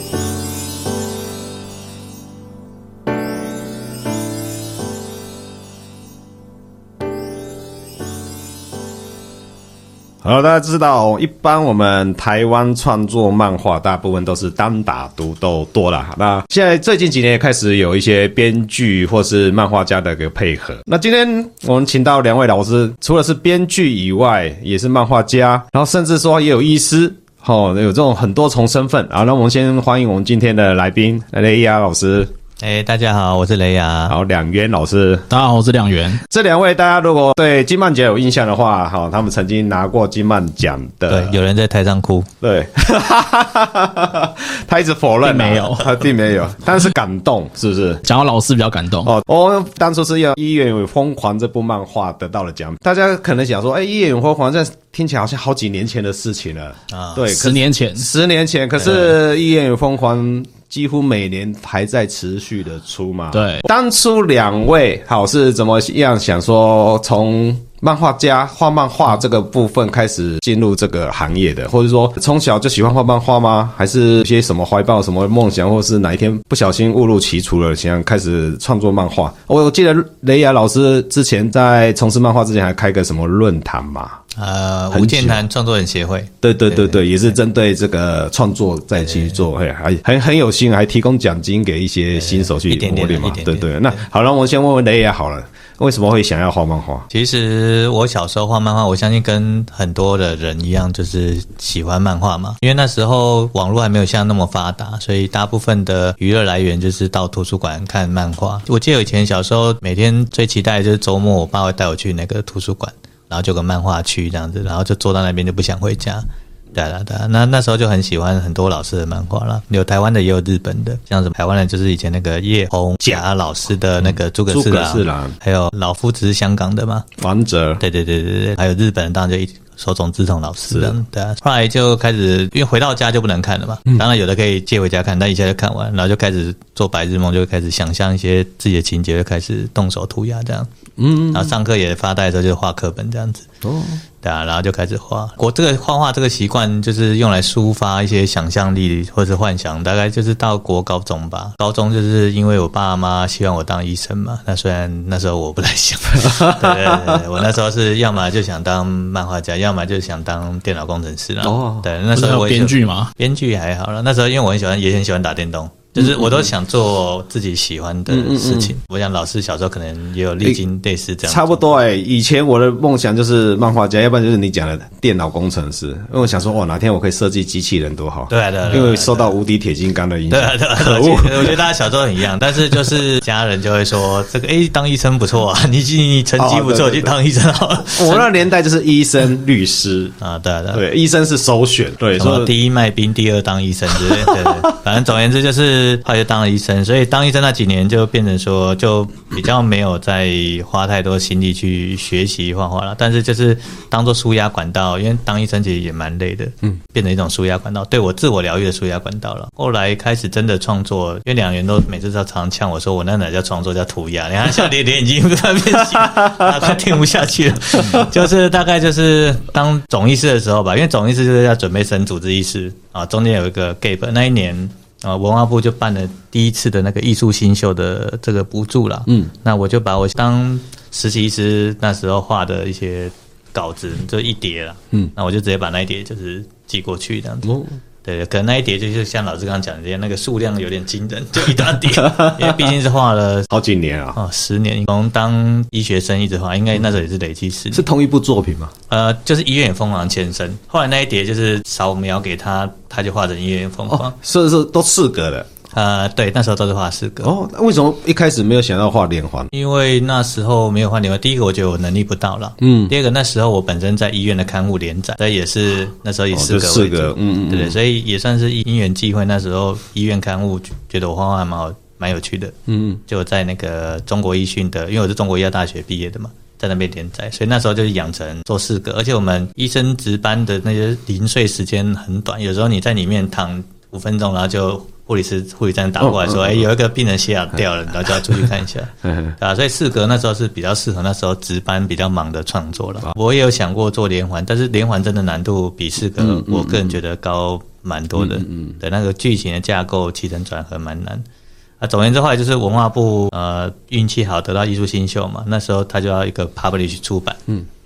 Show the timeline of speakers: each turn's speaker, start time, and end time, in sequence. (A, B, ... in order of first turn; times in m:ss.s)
0:10.2-0:32.3 A
0:32.6-0:34.1 B
0:34.1-0:35.3 A
0:35.3-0:36.2 C
0:36.3-0:41.4 A
0:41.1-0:42.3 B
0:42.4-0:48.0 A
0:45.2-0:45.9 C
0:48.0-0:49.1 C
0:49.0-1:24.2 A
0:56.9-0:57.2 B
0:57.3-0:58.1 C
1:03.3-1:03.6 C
1:24.4-1:27.3 B
1:24.9-1:25.4 A
1:26.4-1:37.0 A
1:29.0-1:29.4 B
1:32.2-1:34.0 B
1:37.1-2:07.1 B
2:04.0-2:05.3 A
2:07.2-2:07.8 A
2:07.8-2:20.7 B
2:21.0-2:21.5 A
2:21.3-2:23.5 B
2:23.6-2:24.0 A
2:24.2-2:51.7 B
2:36.2-2:37.2 A
2:41.4-2:41.8 A
2:42.1-2:43.1 C
2:46.0-2:46.5 A
2:48.1-2:48.7 A
2:51.3-3:01.6 A
2:58.3-2:59.4 B
3:00.3-3:08.3 B
3:06.4-3:07.1 A
3:07.9-3:10.1 A
3:10.2-3:10.8 B
3:10.7-3:12.5 A
3:12.2-4:03.5 B
3:14.0-3:14.7 A
3:37.8-3:38.1 A
4:02.2-4:02.5 A
4:03.5-4:04.2 A
4:04.2-4:07.8 B
4:07.7-4:08.7 A
4:08.9-4:14.1 B
4:13.9-4:15.5 A
4:15.7-4:17.3 B
4:17.2-4:19.5 A
4:19.5-4:32.5 B
4:22.6-4:22.9 A
4:26.3-4:27.8 A
4:32.7-4:33.0 A
4:33.1-5:01.2 B
4:46.0-4:46.6 A
4:49.0-4:49.3 A
4:56.2-4:56.9 A
4:58.2-4:58.7 A
5:01.8-5:07.4 B